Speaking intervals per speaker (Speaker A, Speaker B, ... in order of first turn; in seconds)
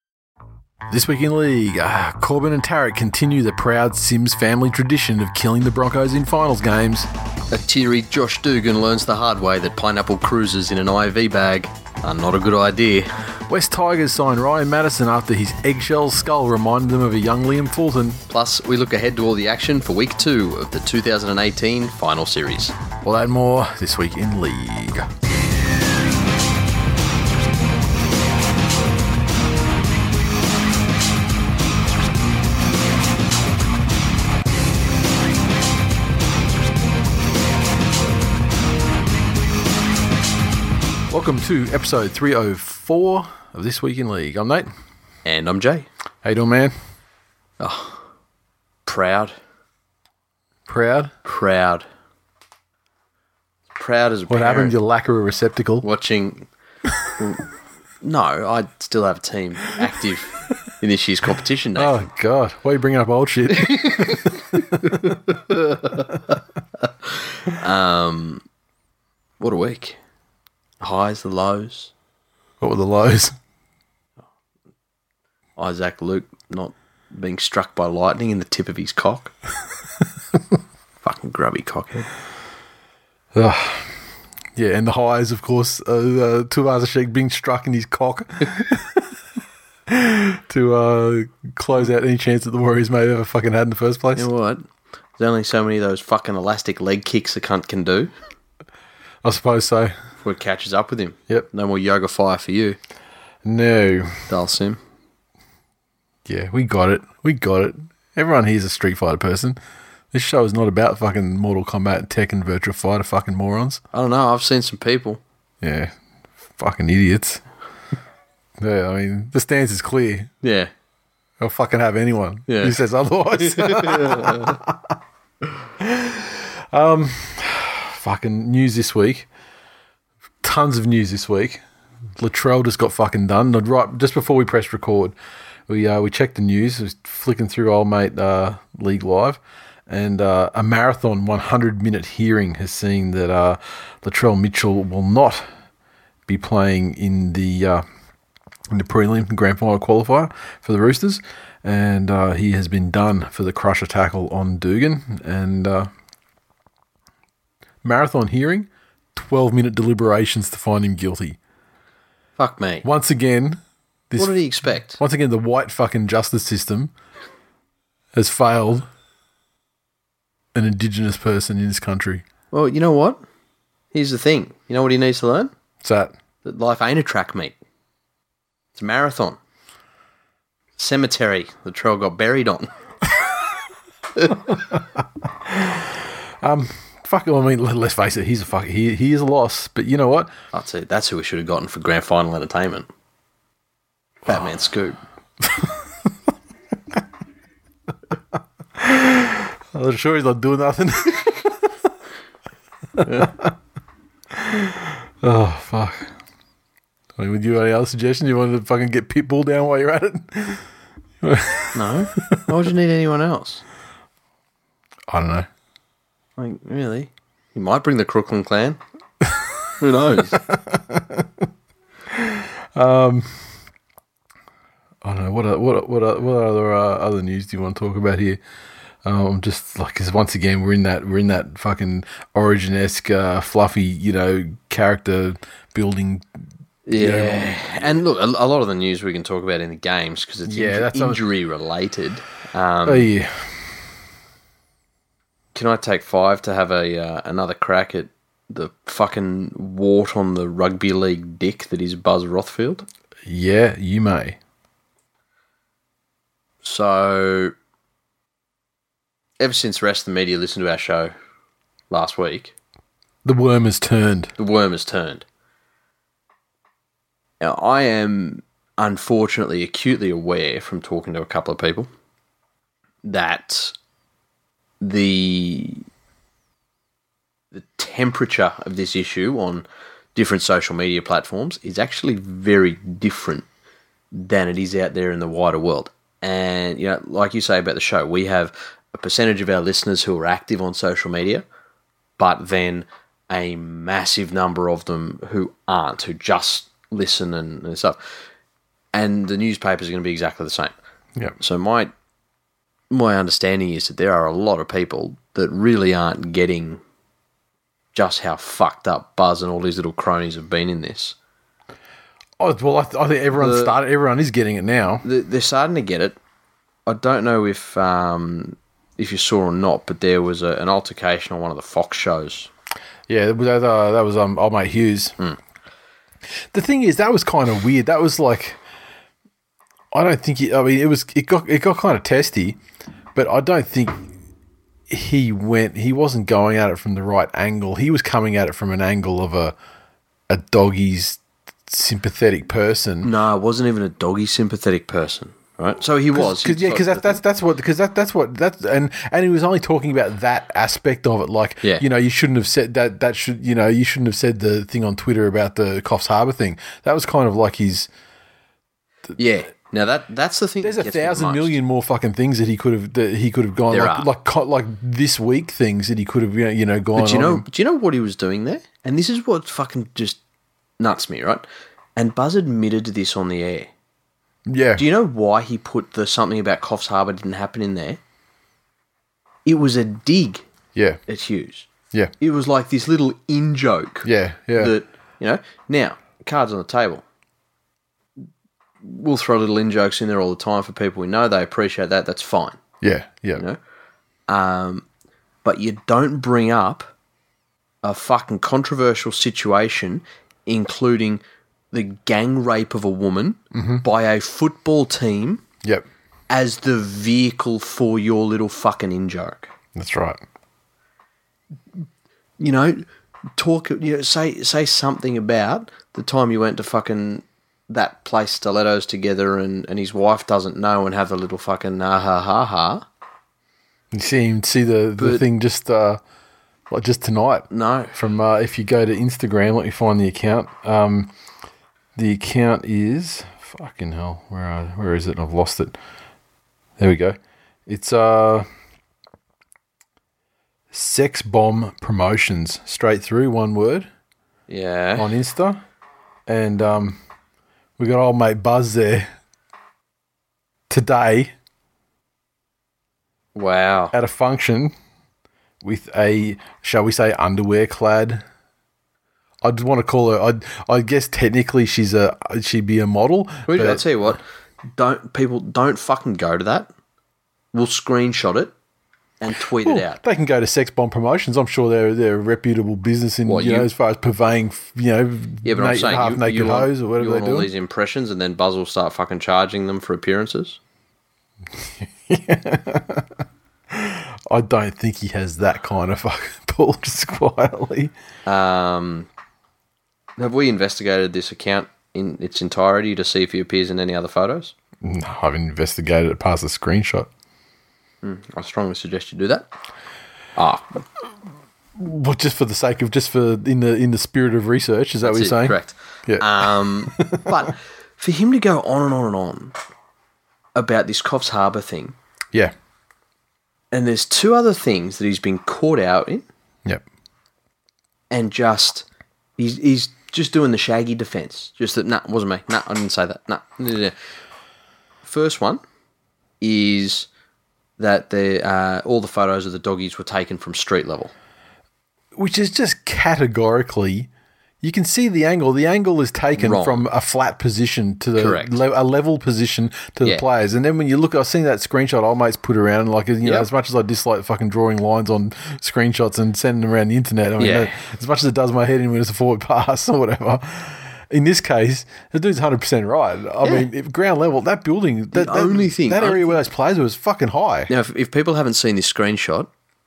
Speaker A: 0.9-7.1, 13.5-18.2, 23.0-25.1, 41.1-44.7, 46.2-46.7, 50.7-51.1, 54.3-55.9, 61.8-65.2, 72.6-73.3, 83.3-83.9, 84.5-89.1, 89.9-94.3, 99.2-99.9, 103.4-104.3, 106.2-109.6, 110.1-113.8, 115.6-115.9, 116.6-117.4, 118.6-120.3, 121.4-124.9, 125.8-129.3, 130.4-131.6, 132.2-135.1, 135.7-145.5, 146.3-147.8, 148.7-155.9, 157.8-161.4, 162.8-166.9, 168.1-168.9, 170.5-172.2, 175.8-176.1, 184.5-184.8, 185.4-190.3, 195.5-195.7, 198.8-201.7, 203.0-203.5, 204.3-206.1, 207.2-210.6, 211.2-211.8, 215.1-215.5, 220.4-221.4, 222.1-223.4, 225.0-228.4, 229.0-236.3, 236.9-237.8, 240.5-241.2, 242.8-243.8, 253.2-254.4, 263.2-264.3, 312.4-315.1, 323.1-325.1, 326.5-328.6, 329.9-332.6, 333.1-334.1, 334.9-339.5, 340.3-343.1, 346.1-357.9, 360.6-367.4, 374.5-374.8, 380.7-381.0, 384.0-384.7, 392.8-393.4, 403.5-403.8, 409.7-410.2, 423.9-426.0, 426.7-431.1, 431.9-435.8, 436.8-438.5, 440.7-443.9, 445.0-445.6, 446.3-447.0, 447.8-449.1, 450.7-451.3, 453.9-454.7, 455.6-458.2, 459.4-463.9, 469.6-477.5, 481.6-487.9, 494.8-497.1, 501.8-507.3, 532.1-534.1, 534.6-557.7
Speaker B: 7.5-13.1, 18.3-22.7, 45.2-45.9, 47.6-48.0, 48.9-49.3, 51.2-51.8, 53.7-54.8, 55.8-56.5, 58.0-62.0, 63.6-66.1, 66.8-68.4, 69.4-70.0, 70.8-71.9, 75.6-79.3, 81.0-82.1, 94.1-94.7, 95.2-98.1, 100.2-102.8, 104.3-104.8, 113.9-115.2, 120.4-120.7, 122.5-122.8, 123.3-124.6, 162.4-162.8, 164.2-165.0, 172.5-173.2, 173.9-175.5, 176.4-177.6, 178.7-179.4, 180.8-182.7, 190.5-192.9, 194.2-195.0, 203.0-203.3, 211.7-213.6, 216.4-218.8, 219.8-220.5, 236.8-243.1, 245.5-252.8, 256.6-257.5, 259.4-261.1, 261.9-262.5, 264.4-265.2, 267.4-271.9, 273.0-273.7, 274.8-275.9, 277.5-283.4, 284.1-291.4, 292.2-298.0, 298.9-300.7, 301.4-301.9, 302.9-306.8, 307.9-311.1, 313.4-313.8, 315.0-316.2, 316.9-322.5, 343.0-347.2, 359.2-361.6, 363.7-364.1, 366.9-370.2, 370.8-371.4, 371.9-373.7, 374.8-378.0, 379.4-380.4, 381.1-381.7, 382.2-387.0, 388.8-392.6, 394.3-394.9, 395.4-396.9, 397.8-401.2, 401.7-405.4, 406.3-409.5, 412.4-412.8, 413.4-422.8, 425.0-425.2, 427.5-427.9, 444.5-445.1, 453.3-453.9, 463.5-464.2, 464.8-466.7, 467.5-468.5, 469.2-470.0, 473.2-473.7, 475.4-480.6, 488.2-489.1, 490.2-494.5, 498.0-499.5, 500.4-500.8, 505.0-509.6, 510.5-511.9, 513.7-516.3, 518.1-518.8, 519.4-523.9, 525.0-525.6, 526.4-527.1, 527.8-531.1, 536.4-536.8, 538.2-538.6, 543.2-543.5, 547.4-547.8, 553.4-553.7, 555.1-556.3, 557.7-559.5